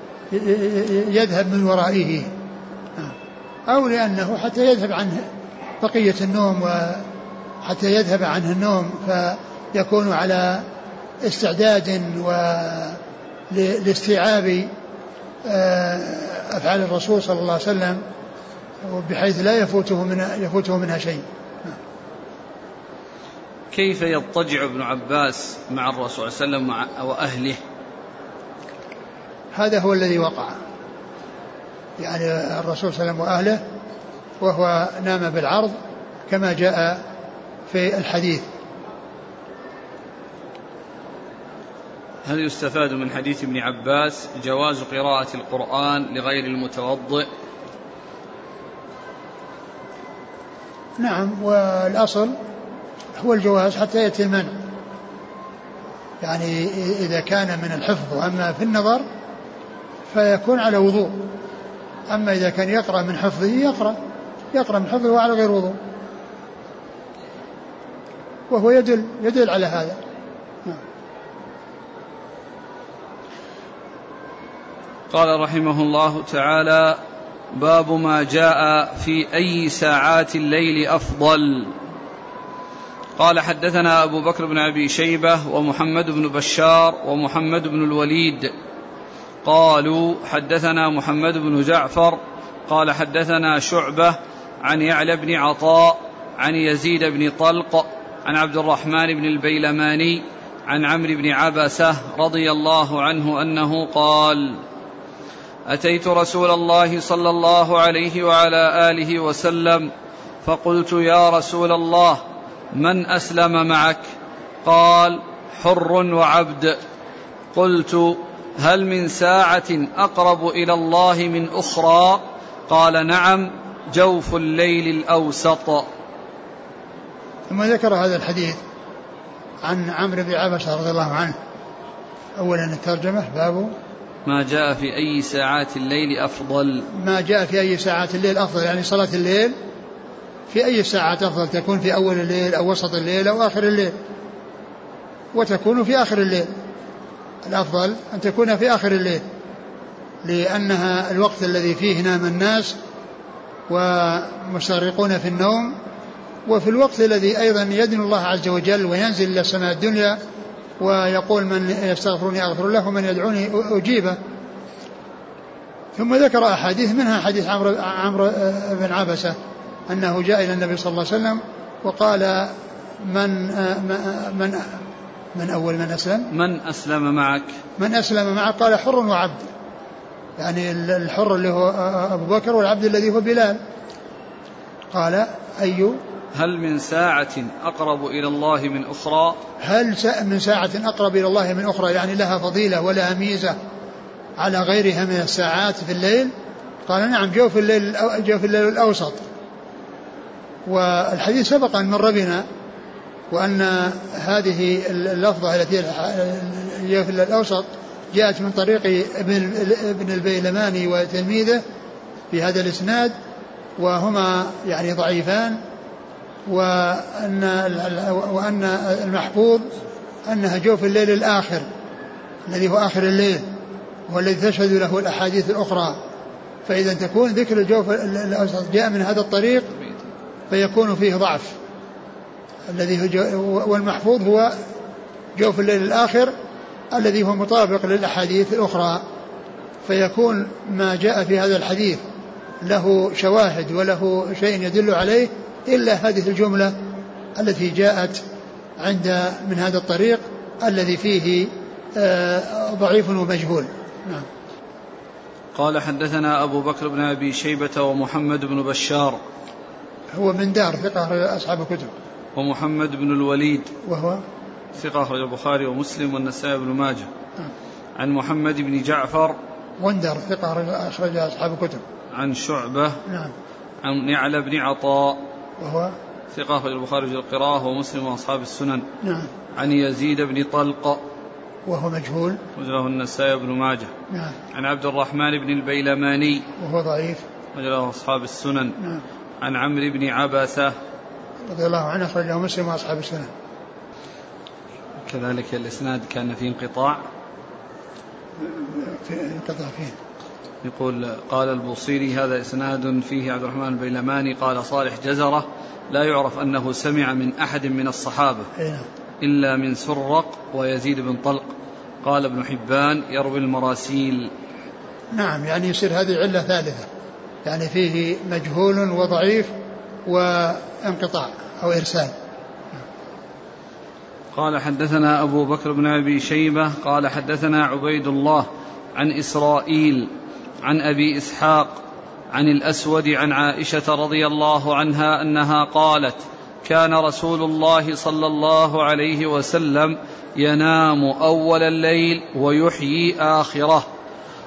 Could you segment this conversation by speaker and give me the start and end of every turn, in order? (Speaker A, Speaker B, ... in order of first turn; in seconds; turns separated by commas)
Speaker A: 0.3-2.3, Speaker A: 3.7-5.3, Speaker A: 5.8-7.1, Speaker A: 7.6-10.7, Speaker A: 11.2-14.7, Speaker A: 15.4-18.0, Speaker A: 18.8-21.8, Speaker B: 23.7-27.6, Speaker A: 29.5-30.6, Speaker A: 32.0-33.6, Speaker A: 34.4-35.8, Speaker A: 36.3-37.0, Speaker A: 37.7-38.5, Speaker B: 42.2-47.3, Speaker A: 51.0-52.3, Speaker A: 53.1-54.7, Speaker A: 56.2-59.0, Speaker A: 60.1-61.4, Speaker A: 62.1-64.0, Speaker A: 64.5-65.8, Speaker A: 68.5-70.0, Speaker B: 75.1-77.0, Speaker B: 77.5-81.8, Speaker B: 83.2-88.5, Speaker B: 89.4-104.6, Speaker B: 105.7-109.9, Speaker B: 110.4-112.2, Speaker B: 112.7-114.1, Speaker B: 114.7-116.8, Speaker B: 117.5-125.9, Speaker A: 127.5-128.6, Speaker A: 129.6-131.4, Speaker A: 132.4-133.7, Speaker B: 134.3-136.9, Speaker A: 136.9-139.6, Speaker A: 140.5-144.0, Speaker A: 145.3-146.5, Speaker A: 147.4-149.2, Speaker A: 150.2-152.8, Speaker A: 153.7-155.8, Speaker A: 156.5-160.2, Speaker A: 160.8-164.2, Speaker A: 165.9-169.4, Speaker A: 169.9-174.8, Speaker A: 175.3-176.3, Speaker B: 176.3-177.5, Speaker A: 177.8-179.4, Speaker A: 180.4-183.6, Speaker A: 184.9-186.0, Speaker B: 186.3-189.4, Speaker A: 189.6-193.6, Speaker A: 194.4-196.3, Speaker A: 196.9-199.2, Speaker A: 200.7-202.5, Speaker A: 203.3-211.6, Speaker A: 212.3-213.2, Speaker A: 213.8-215.6, Speaker A: 216.5-219.7, Speaker A: 220.3-221.7, Speaker A: 222.5-223.5, Speaker A: 224.1-226.0, Speaker A: 226.7-229.7, Speaker A: 230.5-231.6, Speaker A: 232.7-234.6, Speaker A: 235.4-236.3, Speaker A: 236.9-239.0, Speaker A: 239.8-242.0, Speaker A: 242.6-246.8, Speaker A: 247.4-248.2, Speaker A: 248.8-254.3, Speaker B: 255.6-259.2, Speaker A: 260.1-261.9, Speaker B: 262.4-263.7, Speaker A: 263.9-264.2, Speaker B: 264.8-267.1, Speaker B: 268.0-269.4, Speaker A: 269.8-271.8, Speaker B: 272.1-273.0, Speaker A: 273.1-273.3, Speaker B: 273.8-275.2, Speaker A: 275.6-276.0, Speaker B: 276.3-278.9, Speaker A: 279.0-279.3, Speaker B: 279.5-281.0, Speaker A: 281.7-282.4, Speaker B: 282.6-283.9, Speaker A: 284.1-284.4, Speaker B: 284.5-286.5, Speaker A: 286.6-287.2, Speaker B: 287.5-288.8, Speaker B: 289.4-290.8, Speaker A: 291.5-293.3, Speaker B: 295.0-297.0, Speaker A: 298.4-300.0, Speaker B: 300.6-308.5, Speaker A: 308.6-308.9, Speaker B: 309.2-314.3, Speaker A: 315.1-316.9, Speaker A: 317.4-319.6, Speaker A: 320.1-322.1, Speaker B: 324.3-330.1, Speaker B: 330.6-343.9